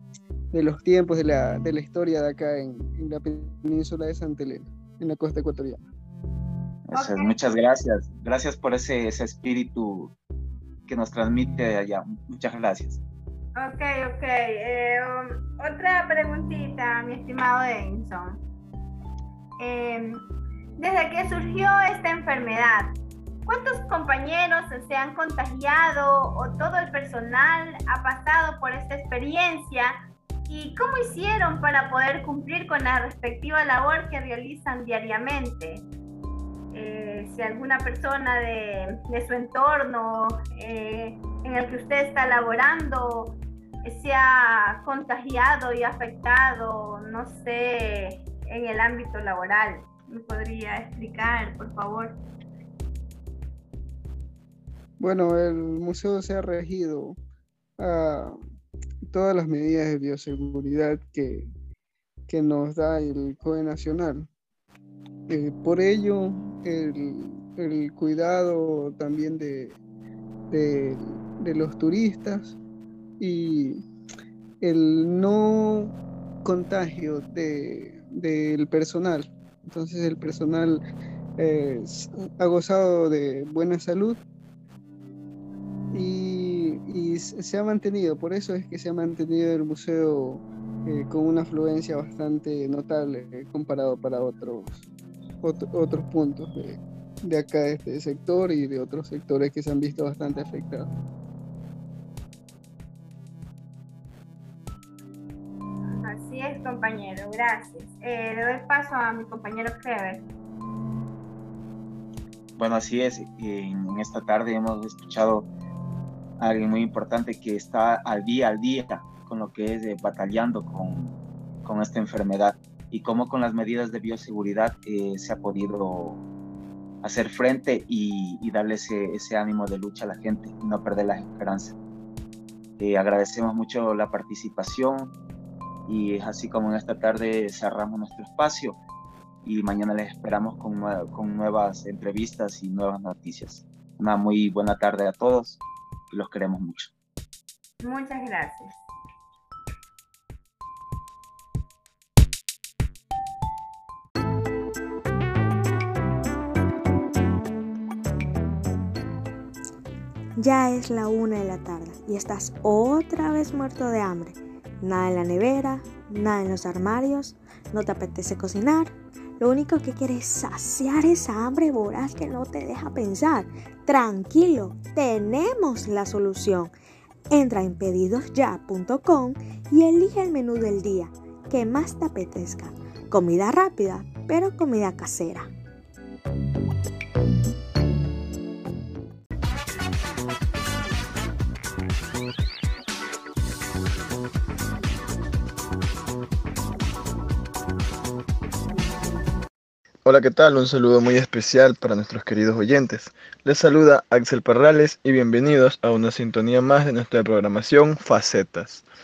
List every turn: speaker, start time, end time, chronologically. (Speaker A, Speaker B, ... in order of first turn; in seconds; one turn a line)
Speaker A: 0.5-5.8
Speaker B: 6.9-10.1
Speaker C: 7.0-7.3
Speaker B: 10.9-13.0
Speaker C: 13.6-18.4
Speaker C: 19.6-20.2
Speaker C: 20.8-22.9
Speaker C: 23.5-29.9
Speaker C: 30.5-35.8
Speaker C: 36.7-52.2
Speaker A: 55.0-57.2
Speaker A: 57.8-58.4
Speaker A: 59.1-61.5
Speaker A: 62.3-64.3
Speaker A: 65.3-69.8
Speaker A: 70.5-72.6
Speaker A: 73.2-73.8
Speaker A: 74.6-75.9
Speaker A: 76.5-80.8
Speaker A: 81.4-84.2
Speaker A: 85.9-94.8
Speaker A: 95.4-100.9
Speaker C: 106.0-110.2
Speaker B: 112.6-115.5
Speaker B: 116.4-126.2
Speaker B: 127.0-131.8
Speaker B: 132.8-135.1
Speaker B: 135.9-138.8
Speaker B: 139.4-145.6
Speaker B: 146.1-146.9
Speaker C: 147.8-148.8
Speaker D: 160.4-168.9
Speaker D: 169.4-176.7
Speaker D: 177.3-182.6
Speaker D: 183.1-185.4
Speaker E: 200.1-208.8